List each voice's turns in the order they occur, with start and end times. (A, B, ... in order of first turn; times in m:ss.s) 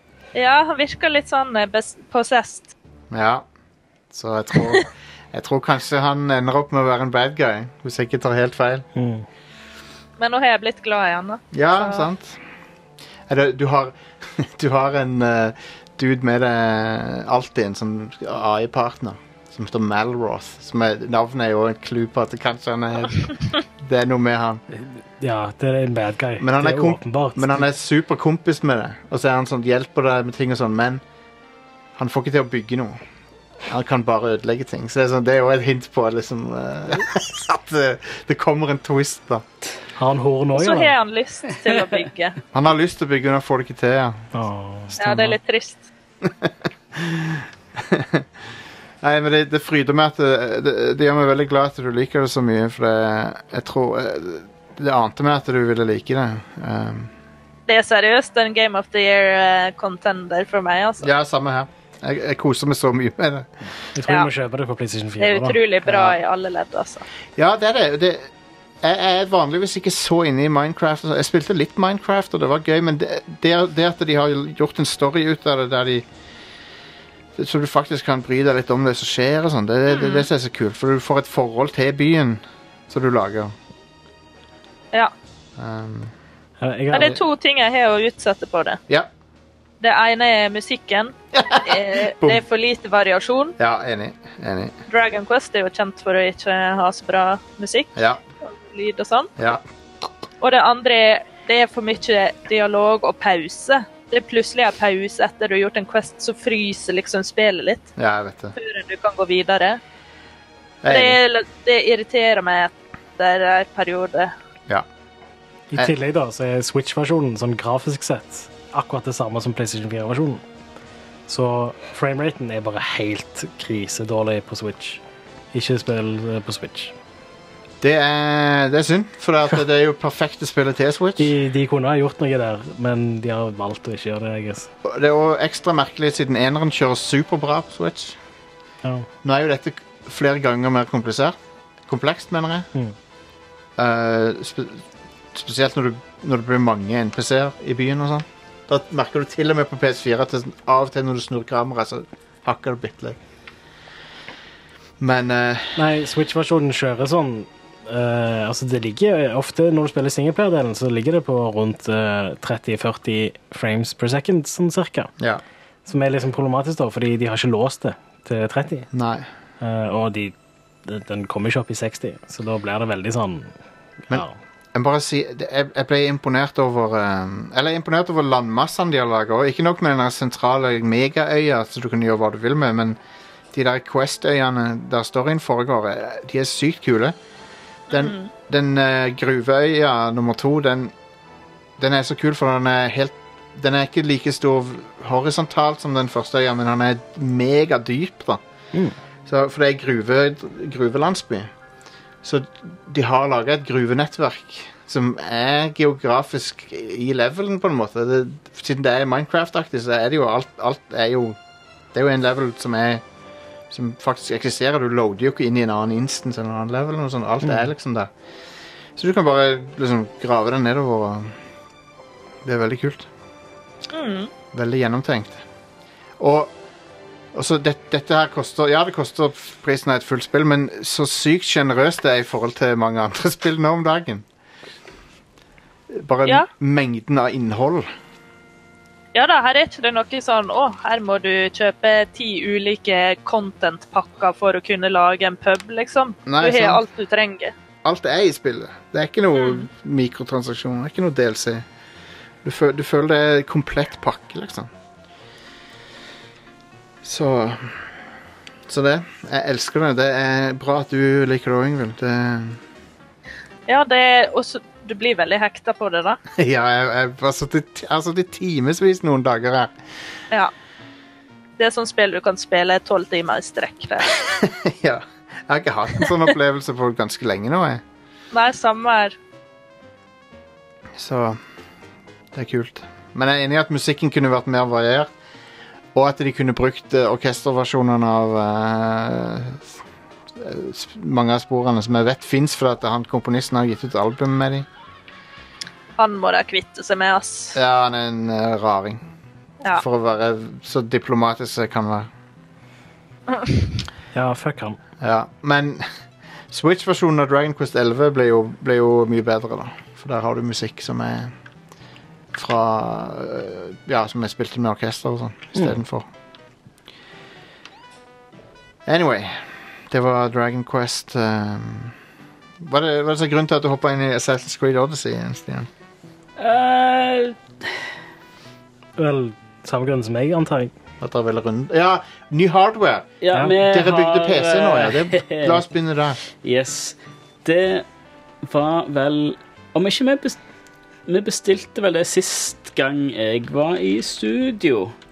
0:00.3-0:02.7 A
0:03.1-0:03.4 B
0:04.1-0:08.8 B
0:09.0-0:09.2 C
0:10.2-0:12.0 A
0:11.5-0:12.4 B
0:13.3-0:24.6 B
0:25.2-0:27.6 C
0:26.4-0:31.0 B
0:32.0-0:33.0 B
0:33.7-0:39.4 B
0:40.0-0:41.0 C
0:40.5-0:42.4 A
0:42.5-0:44.3 B
0:44.3-0:45.4 C
0:45.0-0:45.8 A
0:46.2-0:48.3 B
0:49.0-0:57.1 B
0:57.7-1:01.1 A
1:01.0-1:03.5 B
1:03.9-1:05.6 C
1:04.0-1:04.3 A
1:05.2-1:07.0 A
1:05.8-1:06.2 B
1:07.4-1:08.2 B
1:08.8-1:16.1 B
1:17.4-1:23.5 B
1:19.9-1:20.3 A
1:25.6-1:26.1 B
1:26.6-1:27.2 C
1:26.9-1:28.8 A
1:29.8-1:33.6 A
1:31.3-1:32.4 B
1:33.6-1:34.7 B
1:34.9-1:39.3 A
1:38.0-1:38.2 B
1:39.4-1:39.6 B
1:40.4-1:47.9 A
1:48.0-1:48.5 B
1:48.6-1:49.8 A
1:50.8-1:51.2 B
1:50.9-1:54.3 A
1:55.7-2:00.4 C
2:01.3-2:05.0 C
2:05.5-2:06.9 C
2:07.8-2:11.3 B
2:11.2-2:14.7 C
2:14.8-2:18.2 B
2:19.2-2:22.7 B
2:23.8-2:33.2 B
2:35.0-2:35.9 B
2:35.8-2:45.1 C
2:45.8-2:48.9 C
2:48.9-2:49.3 B
2:49.6-2:50.3 C
2:50.8-2:53.5 C
2:54.1-2:54.3 C
2:54.1-3:03.0 B
3:03.5-3:07.1 B
3:07.9-3:08.3 A
3:07.9-3:10.9 B
3:11.8-3:18.4 B
3:19.2-3:21.5 B
3:22.2-3:31.4 B
3:31.9-3:33.0 B
3:33.7-3:38.1 B
3:39.0-3:41.3 B
3:42.4-3:43.1 B
3:43.9-3:44.3 A
3:44.5-3:45.4 B
3:46.2-3:46.5 B
3:47.3-3:54.2 B
3:55.9-3:57.9 B
3:59.1-4:07.5 A
4:06.3-4:06.8 B
4:07.8-4:11.6 B
4:09.4-4:09.6 A
4:12.4-4:14.7 B
4:17.0-4:17.9 B
4:18.7-4:22.6 B
4:23.7-4:26.2 A
4:26.4-4:29.7 B
4:31.6-4:34.1 A
4:34.2-4:37.8 B
4:38.3-4:39.2 A
4:41.0-4:41.4 B
4:42.3-4:45.1 B
4:45.9-4:49.8 B
4:50.3-4:54.6 B
4:56.0-4:57.6 A
4:57.5-4:59.0 B
4:59.7-5:02.1 B
5:03.3-5:03.6 A
5:04.1-5:04.8 C
5:05.0-5:05.9 B
5:06.5-5:11.3 B
5:12.3-5:16.1 B
5:18.8-5:22.0 B
5:22.6-5:25.7 B
5:26.4-5:27.4 D
5:29.0-5:30.7 C
5:31.0-5:36.2 B
5:33.2-5:35.6 D
5:36.2-5:37.8 D
5:38.4-5:40.4 D
5:41.1-5:44.9 D